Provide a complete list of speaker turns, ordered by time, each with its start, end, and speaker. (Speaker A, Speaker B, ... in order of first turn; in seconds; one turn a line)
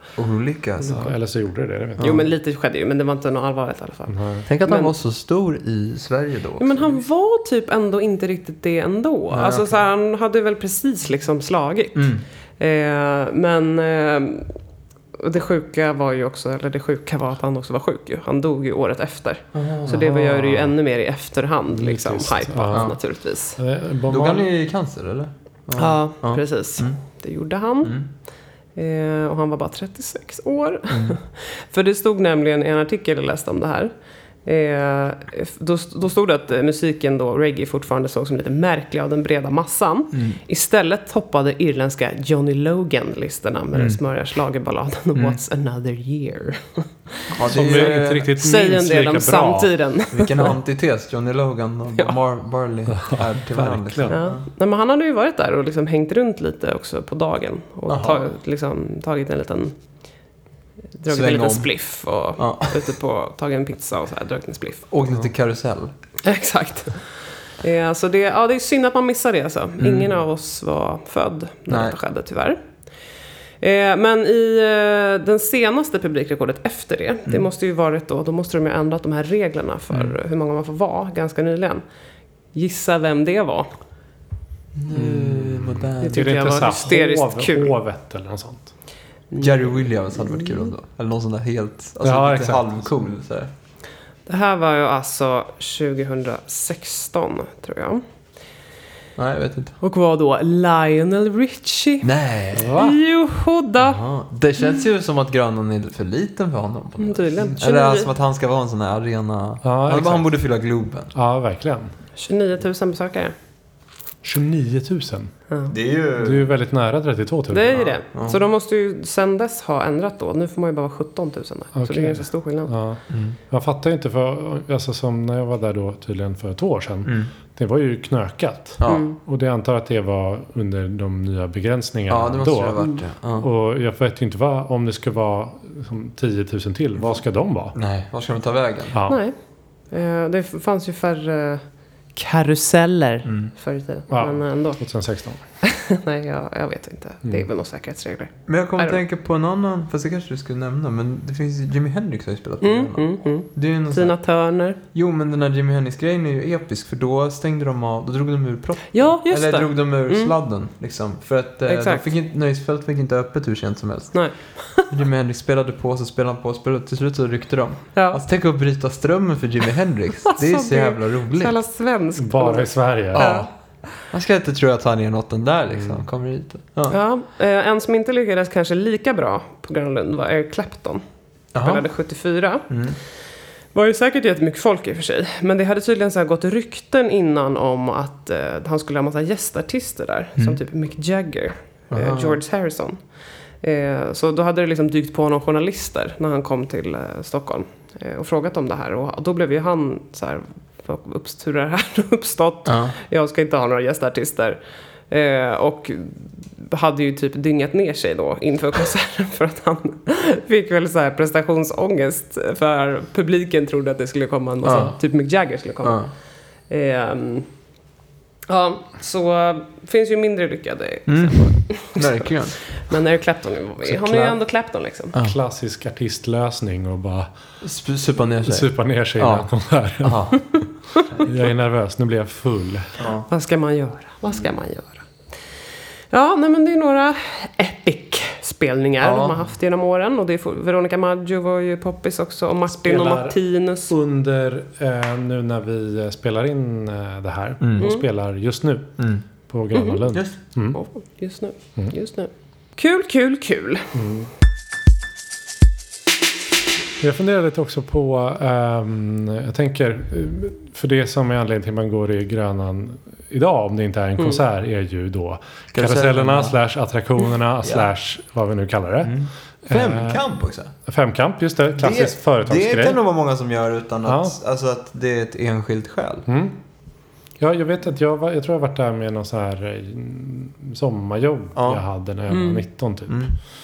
Speaker A: 0.2-1.1
Speaker B: 0.8-2.2
Speaker A: 2.0-2.2
Speaker C: 2.0-4.9
Speaker B: 4.1-4.4
Speaker A: 4.5-7.0
Speaker C: 6.6-14.5
Speaker A: 9.3-9.8
Speaker A: 11.9-12.2
Speaker C: 15.2-23.6
Speaker A: 19.5-20.1
Speaker B: 19.9-20.7
Speaker B: 21.7-22.9
Speaker B: 23.6-24.5
Speaker A: 24.1-27.0
Speaker C: 25.8-28.0
Speaker C: 28.8-33.9
Speaker A: 30.9-31.2
Speaker C: 34.4-50.5
Speaker A: 40.1-40.4
Speaker A: 43.7-44.0
Speaker A: 47.3-48.3
Speaker B: 47.5-49.7
Speaker A: 50.1-54.4
Speaker B: 52.9-54.2
Speaker C: 54.1-59.7
Speaker A: 57.9-58.3
Speaker C: 61.0-64.9
Speaker A: 61.1-61.7
Speaker A: 62.4-62.9
Speaker A: 64.9-65.9
Speaker C: 66.2-67.1
Speaker C: 67.6-72.6
Speaker A: 69.8-70.2
Speaker A: 71.7-72.0
Speaker C: 73.6-81.8
Speaker C: 82.5-83.7
Speaker A: 84.8-86.3
Speaker B: 84.9-88.7
Speaker C: 86.0-87.7
Speaker C: 89.3-90.7
Speaker A: 89.4-93.5
Speaker B: 92.0-92.8
Speaker C: 94.3-98.0
Speaker A: 99.2-99.8
Speaker C: 99.8-102.1
Speaker A: 102.0-102.8
Speaker B: 102.5-103.0
Speaker C: 102.7-104.0
Speaker A: 103.8-111.1
Speaker C: 107.0-108.1
Speaker B: 109.6-110.3
Speaker B: 111.1-111.9
Speaker C: 112.2-113.3
Speaker B: 114.2-115.3
Speaker A: 115.7-116.5
Speaker B: 116.2-117.8
Speaker C: 117.5-122.7
Speaker A: 117.7-118.4
Speaker B: 121.7-132.8
Speaker A: 123.1-123.4
Speaker A: 127.0-127.3
Speaker C: 128.8-129.2
Speaker A: 132.1-133.5
Speaker B: 133.4-137.7
Speaker A: 137.7-138.9
Speaker B: 138.9-139.2
Speaker C: 139.1-139.3
Speaker C: 139.9-141.6
Speaker C: 142.1-144.8
Speaker A: 143.2-143.5
Speaker B: 144.1-145.4
Speaker C: 145.6-149.0
Speaker A: 148.5-154.2
Speaker C: 152.6-154.8
Speaker A: 154.9-164.2
Speaker C: 158.9-160.3
Speaker C: 161.7-162.1
Speaker C: 164.1-164.9
Speaker A: 164.9-171.6
Speaker C: 167.9-168.2
Speaker C: 170.2-173.5
Speaker B: 172.2-173.3
Speaker A: 173.1-173.5
Speaker A: 174.1-177.0
Speaker C: 176.9-181.0
Speaker A: 181.5-181.8
Speaker C: 181.6-182.7
Speaker A: 182.7-183.0
Speaker C: 183.7-193.0
Speaker A: 191.9-192.4
Speaker C: 193.6-204.6
Speaker A: 202.6-202.9
Speaker C: 205.1-216.1
Speaker A: 214.6-214.9
Speaker A: 215.8-216.1
Speaker C: 216.7-217.5
Speaker C: 218.5-225.1
Speaker A: 221.1-222.6
Speaker B: 223.8-224.3
Speaker B: 225.2-227.3
Speaker A: 227.6-229.5
Speaker B: 228.4-230.4
Speaker A: 230.0-230.4
Speaker B: 231.2-232.9
Speaker A: 233.0-233.3
Speaker C: 233.3-235.0
Speaker C: 236.1-243.9
Speaker A: 239.0-239.4
Speaker B: 242.7-248.9
Speaker A: 247.6-247.9
Speaker C: 247.8-248.0
Speaker A: 249.0-249.2
Speaker B: 249.5-250.8
Speaker C: 249.7-250.0
Speaker C: 250.7-253.9
Speaker B: 253.9-254.3
Speaker B: 257.0-270.2
Speaker A: 265.7-266.6
Speaker A: 267.6-267.9
Speaker A: 269.0-270.7
Speaker B: 270.9-273.0
Speaker A: 271.8-276.3
Speaker B: 274.1-274.3
Speaker B: 276.3-276.6
Speaker B: 277.4-283.3
Speaker A: 281.5-281.8
Speaker C: 282.3-282.6
Speaker A: 283.1-283.3